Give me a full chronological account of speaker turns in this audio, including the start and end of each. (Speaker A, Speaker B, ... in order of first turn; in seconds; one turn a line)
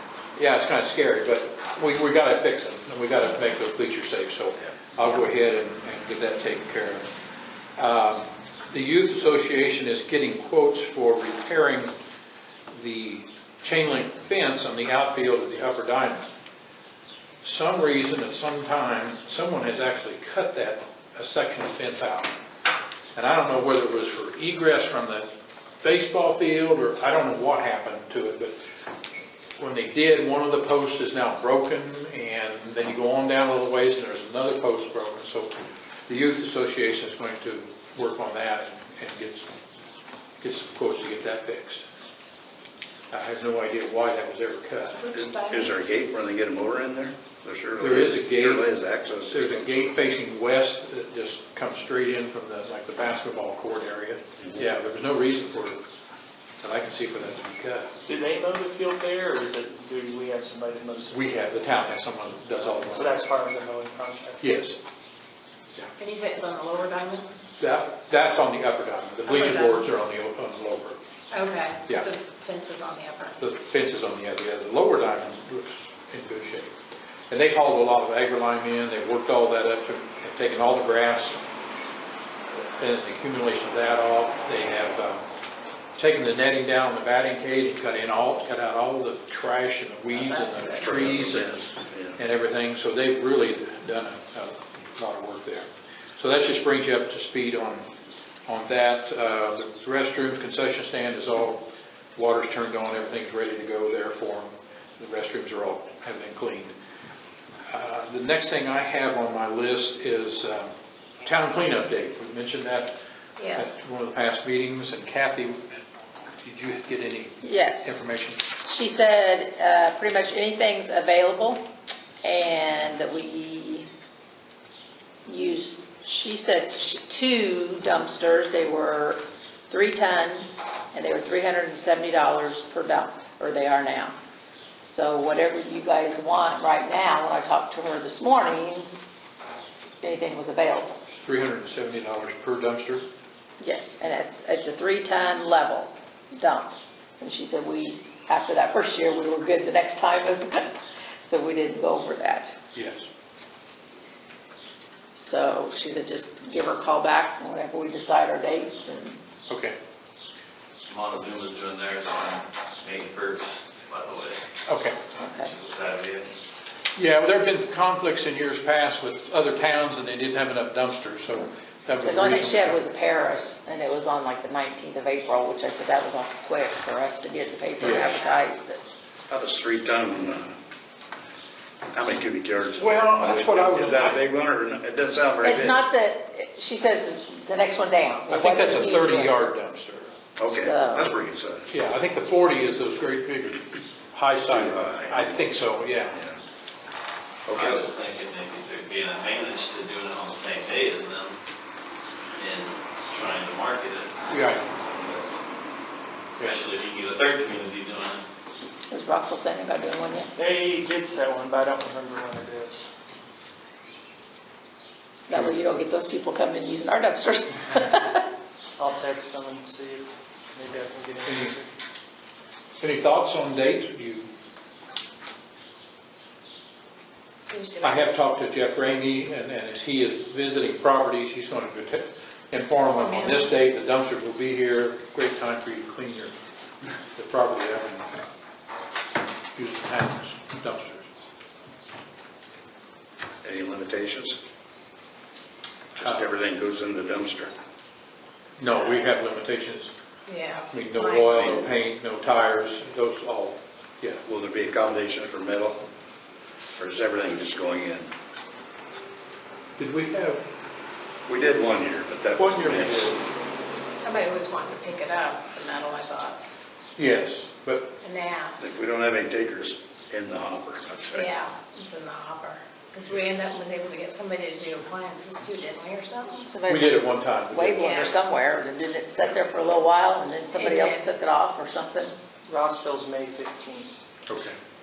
Speaker A: 0.3-7.1
Speaker A: 7.8-11.9
Speaker A: 12.7-16.3
Speaker A: 17.4-22.4
Speaker A: 23.1-25.3
Speaker A: 25.8-28.5
Speaker A: 29.6-35.5
Speaker A: 36.1-39.5
Speaker A: 40.4-41.8
Speaker A: 43.1-45.0
Speaker B: 45.0-45.6
Speaker C: 45.1-50.0
Speaker A: 47.8-48.7
Speaker A: 49.3-55.8
Speaker A: 56.6-57.9
Speaker D: 58.0-61.2
Speaker A: 61.1-63.2
Speaker D: 62.9-64.4
Speaker A: 64.4-64.8
Speaker B: 66.0-67.3
Speaker A: 67.6-71.0
Speaker B: 69.3-69.8
Speaker B: 71.3-73.4
Speaker A: 73.4-76.7
Speaker A: 77.3-81.4
Speaker A: 82.8-85.2
Speaker A: 86.0-97.9
Speaker E: 90.1-90.8
Speaker C: 90.8-92.2
Speaker A: 98.5-101.6
Speaker A: 102.2-106.7
Speaker A: 107.7-112.9
Speaker B: 113.4-113.7
Speaker A: 113.5-115.8
Speaker A: 116.4-118.4
Speaker E: 117.4-118.0
Speaker E: 118.7-121.7
Speaker E: 122.2-123.9
Speaker E: 125.2-134.2
Speaker E: 134.8-138.9
Speaker E: 140.0-141.0
Speaker A: 141.2-143.1
Speaker E: 143.6-152.6
Speaker A: 152.7-153.1
Speaker E: 155.1-159.2
Speaker A: 159.5-159.8
Speaker F: 160.9-164.4
Speaker A: 164.7-165.0
Speaker E: 165.2-165.5
Speaker F: 165.3-166.3
Speaker A: 166.9-172.8
Speaker E: 172.0-178.8
Speaker A: 177.8-178.1
Speaker C: 179.3-180.5
Speaker C: 181.9-185.8
Speaker A: 182.8-184.2
Speaker E: 185.4-189.3
Speaker A: 188.3-190.1
Speaker C: 190.4-191.7
Speaker E: 190.5-191.1
Speaker A: 191.7-196.2
Speaker C: 194.5-195.5
Speaker C: 196.1-196.4
Speaker C: 197.5-197.9
Speaker F: 197.5-201.3
Speaker F: 202.4-204.1
Speaker A: 204.3-204.6
Speaker F: 204.8-205.3
Speaker F: 206.3-208.2
Speaker E: 208.9-210.3
Speaker D: 210.3-212.9
Speaker E: 215.3-218.2
Speaker D: 218.8-221.7
Speaker A: 221.2-221.5
Speaker A: 222.8-224.3
Speaker B: 227.5-228.1
Speaker A: 227.8-236.3
Speaker B: 233.0-233.4
Speaker A: 237.1-238.1
Speaker A: 239.5-241.1
Speaker C: 243.4-244.4
Speaker C: 245.9-247.5
Speaker A: 246.0-246.3
Speaker A: 248.6-249.9
Speaker B: 250.3-251.5
Speaker A: 250.7-254.2
Speaker C: 251.4-251.7
Speaker C: 254.2-255.8
Speaker C: 256.8-258.1
Speaker A: 259.8-260.4
Speaker C: 261.3-263.1
Speaker A: 262.4-263.2
Speaker B: 263.9-266.4
Speaker A: 267.0-267.9
Speaker B: 268.0-268.7
Speaker C: 268.6-271.3
Speaker B: 271.1-276.4
Speaker E: 276.4-282.2
Speaker A: 276.7-278.1
Speaker B: 277.8-278.1
Speaker B: 280.5-281.1
Speaker D: 282.4-283.9
Speaker A: 284.3-284.6